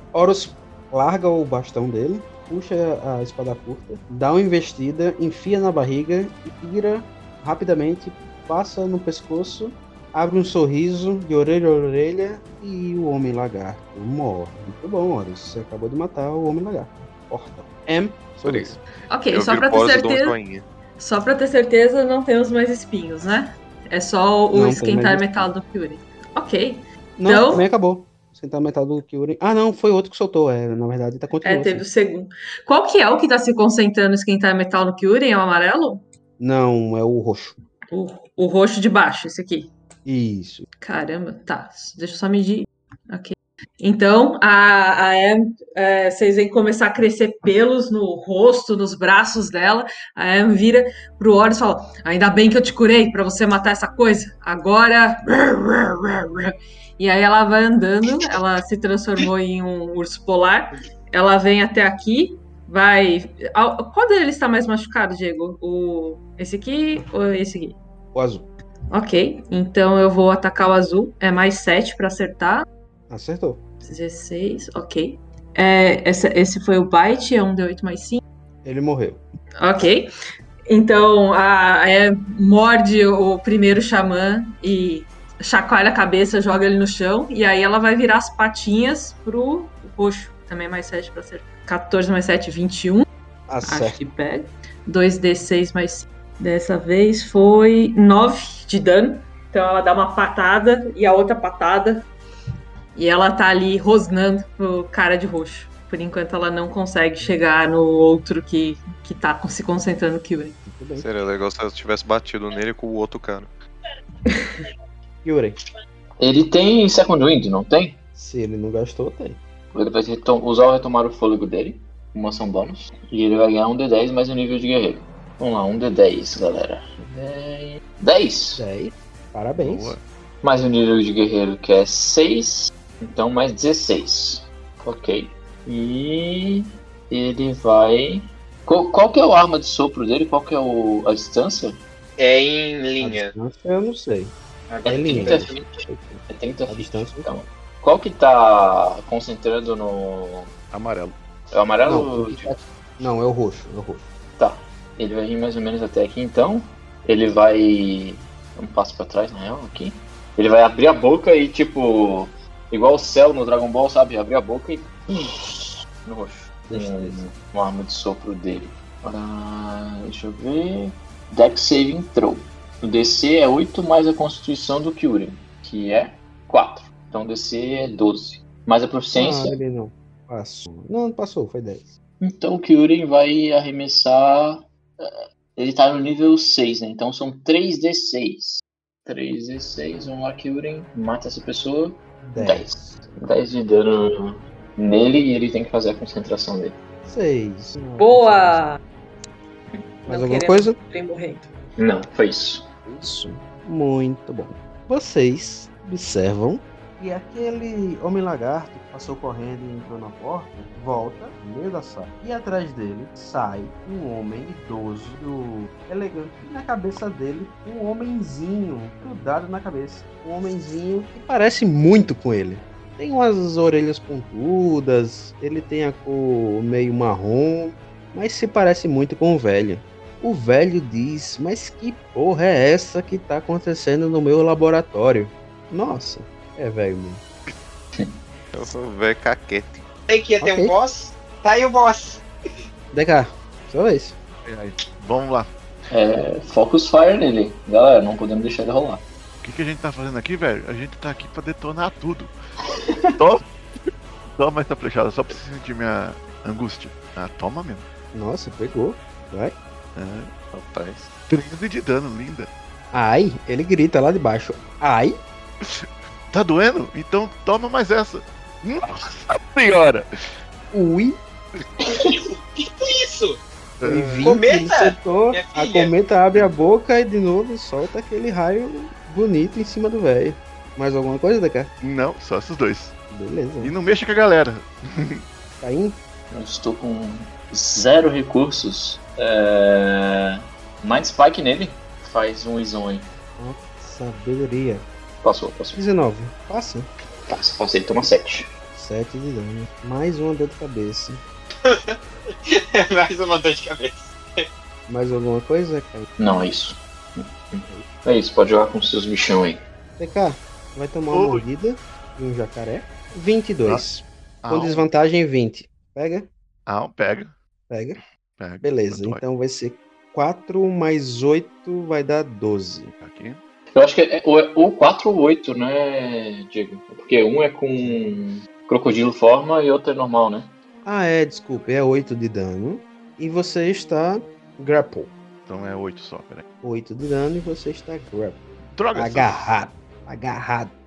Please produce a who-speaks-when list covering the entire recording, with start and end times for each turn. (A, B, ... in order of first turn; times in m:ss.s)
0:00.1-0:18.8 A
0:18.4-0:18.8 B
0:19.1-0:20.4 C
0:19.3-0:20.7 B
0:21.0-0:27.7 C
0:24.5-0:25.5 A
0:27.2-0:31.9 A
0:31.4-0:36.0 C
0:36.4-0:37.6 A
0:37.9-0:39.7 C
0:40.1-0:40.6 A
0:40.8-1:07.8 C
1:08.2-1:08.5 A
1:08.9-1:12.7 C
1:13.1-1:13.6 A
1:13.8-1:18.2 C
1:18.6-1:19.2 A
1:19.6-1:20.1 C
1:20.7-1:33.1 C
1:33.5-1:34.0 A
1:33.7-1:42.1 C
1:43.0-1:50.6 C
1:50.7-1:51.1 A
1:51.0-1:53.5 B
1:54.3-1:54.6 C
1:55.2-1:55.6 A
1:56.2-1:58.0 D
1:58.1-1:59.4 A
1:59.7-2:08.6 D
2:08.6-2:10.0 A
2:09.6-2:10.0 E
2:10.4-2:21.8 D
2:22.2-2:23.3 F
2:23.0-2:24.3 A
2:24.7-2:25.0 F
2:24.9-2:27.3 A
2:24.9-2:30.5 D
2:30.7-2:31.2 E
2:31.5-2:32.6 D
2:31.8-2:34.0 A
2:34.4-2:59.6 D
2:46.7-2:47.2 A
2:59.1-3:01.9 A
3:02.2-3:16.8 D
3:12.2-3:13.0 A
3:17.0-3:18.6 A
3:18.0-3:18.8 C
3:20.0-3:21.5 C
3:20.1-3:20.8 A
3:21.8-3:22.7 D
3:22.8-3:57.2 A
3:58.5-3:59.8 B
4:00.1-4:02.2 F
4:00.4-4:00.7 A
4:02.9-4:04.7 A
4:05.0-4:05.5 E
4:05.9-4:09.0 D
4:09.4-4:12.3 E
4:13.2-4:13.4 E
4:14.4-4:17.8 E
4:18.1-4:19.6 A
4:20.0-4:20.3 E
4:20.5-4:21.1 B
4:21.3-4:22.5 E
4:22.9-4:25.2 A
4:25.6-4:30.1 E
4:30.7-4:31.2 A
4:31.9-4:33.4 F
4:33.8-4:34.4 E
4:33.8-4:41.7 A
4:34.2-4:35.9 F
4:41.8-4:43.0 E
4:43.1-4:43.7 A
4:43.6-4:45.2 E
4:45.6-4:46.0 A
4:46.3-4:53.1 D
4:53.4-4:54.9 A
4:55.2-4:55.8 D
4:55.7-4:56.9 A
4:57.3-4:58.5 D
4:58.7-5:01.2 A
5:01.6-5:02.0 F
5:02.5-5:04.4 F
5:04.9-5:06.1 A
5:06.2-5:09.6 D
5:10.0-5:16.3 A
5:11.1-5:11.4 E
5:14.4-5:14.8 E
5:16.7-5:17.3 E
5:17.7-5:18.0 A
5:18.4-5:19.2 E
5:18.6-5:22.9 A
5:23.0-5:23.4 E
5:23.8-5:30.5 D
5:27.8-5:28.2 A
5:30.8-5:35.1 A
5:35.5-5:36.4 E
5:36.6-5:38.4 A
5:38.7-5:39.6 E
5:39.0-5:40.7 A